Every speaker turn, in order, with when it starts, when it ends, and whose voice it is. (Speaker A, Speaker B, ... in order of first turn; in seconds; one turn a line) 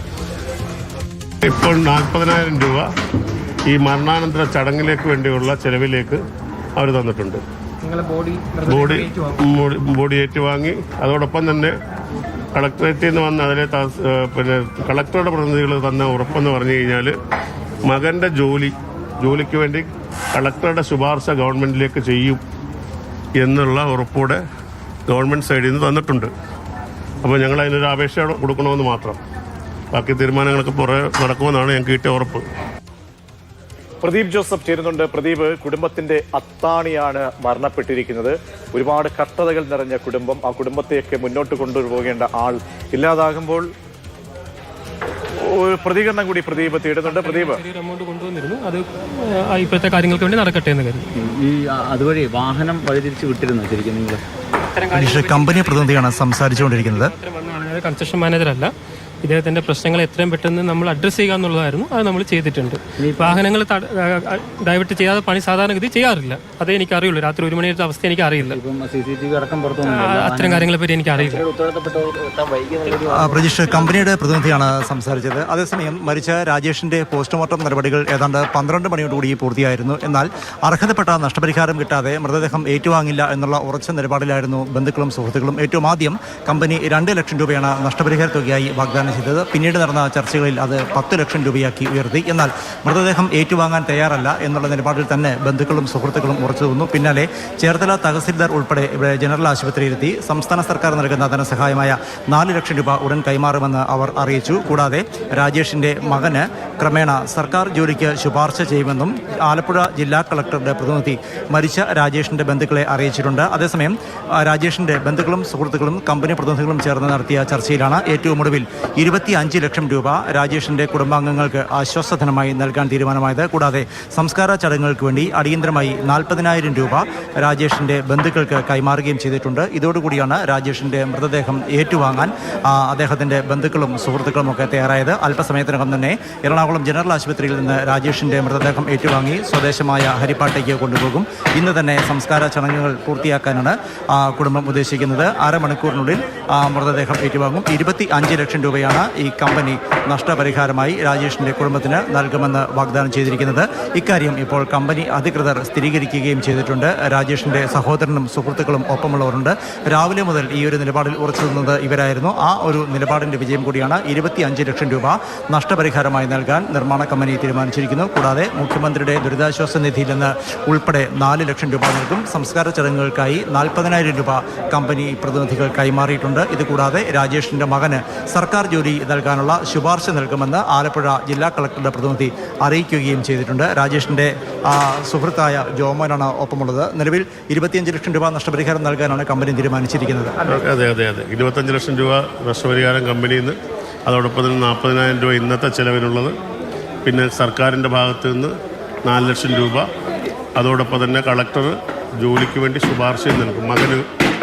Speaker A: 1.4-2.9
Speaker A: 3.7-6.2
Speaker A: 6.8-7.4
Speaker B: 7.8-9.4
Speaker A: 8.7-11.7
Speaker A: 12.6-17.1
Speaker A: 17.9-22.4
Speaker A: 23.4-24.4
Speaker A: 25.1-26.3
Speaker A: 27.2-29.2
Speaker A: 29.9-32.5
Speaker C: 34.0-43.7
Speaker C: 45.4-47.6
Speaker B: 47.0-51.1
Speaker D: 51.2-54.2
Speaker B: 54.8-58.7
Speaker E: 54.9-57.1
Speaker B: 59.2-68.6
Speaker D: 63.0-63.5
Speaker D: 68.4-73.5
Speaker B: 69.8-71.4
Speaker E: 73.1-190.4
Speaker A: 190.4-196.3
Speaker A: 197.1-198.5
Speaker A: 199.1-199.8
Speaker A: 200.6-204.1